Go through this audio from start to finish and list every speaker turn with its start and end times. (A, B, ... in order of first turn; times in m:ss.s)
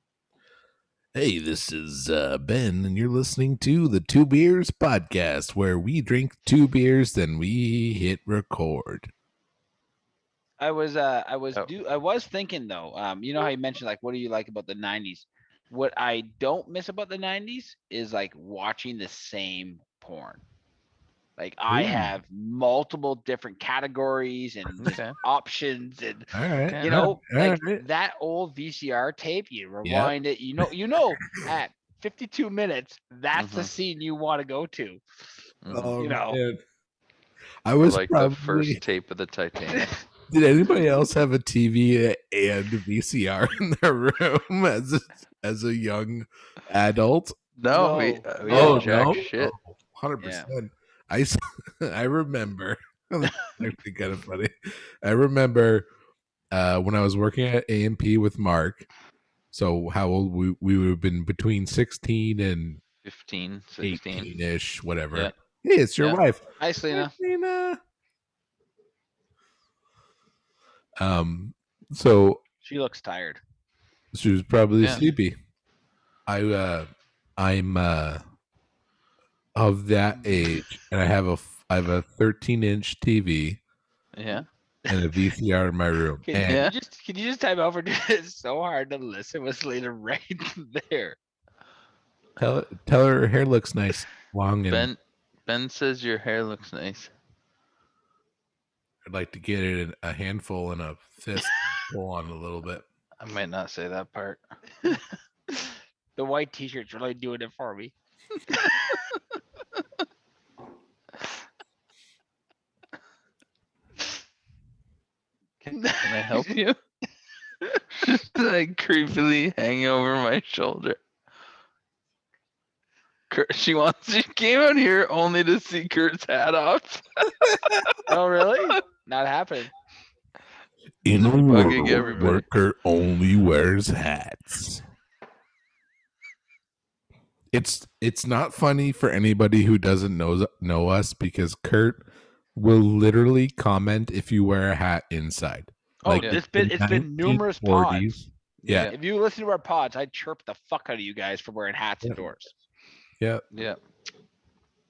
0:01.1-0:09.1 A
0:10.6-0:20.4 B
0:21.4-0:35.0 B
0:21.7-0:22.1 A
0:24.8-0:25.1 C
0:26.3-0:27.8 A
0:26.7-0:26.9 C
0:29.8-0:30.1 A
0:33.4-0:33.7 C
0:35.6-0:36.0 C
0:35.7-0:36.6 A
0:36.0-0:36.4 B
0:37.6-0:38.8 A
0:37.8-0:40.0 C
0:40.3-0:47.3 A
0:47.6-0:49.5 C
0:47.7-0:49.2 B
0:48.5-0:55.8 A
0:50.2-0:50.5 B
0:56.5-0:58.9 A
0:59.5-1:02.8 A
1:03.0-1:04.3 C
1:03.8-1:07.8 A
1:06.6-1:07.1 B
1:11.0-1:12.4 A
1:12.6-1:13.4 B
1:14.1-1:15.4 A
1:16.3-1:18.2 A
1:19.6-1:23.6 A
1:20.2-1:20.6 B
1:24.2-1:24.4 C
1:24.9-1:26.7 A
1:26.2-1:31.2 B
1:26.4-1:26.7 C
1:32.4-1:34.9 A
1:34.7-1:37.1 C
1:39.0-1:42.8 A
1:43.2-1:44.4 C
1:46.2-1:47.9 B
1:48.5-1:48.8 B
1:55.6-1:56.5 B
1:56.0-1:56.8 C
1:58.0-2:01.0 C
2:03.3-2:08.0 C
2:08.1-2:09.7 B
2:11.0-2:14.8 A
2:11.4-2:12.4 C
2:11.9-2:12.3 B
2:17.5-2:28.9 A
2:26.0-2:28.2 B
2:28.6-2:28.9 C
2:28.8-2:32.5 B
2:33.2-2:33.4 A
2:33.5-2:33.8 C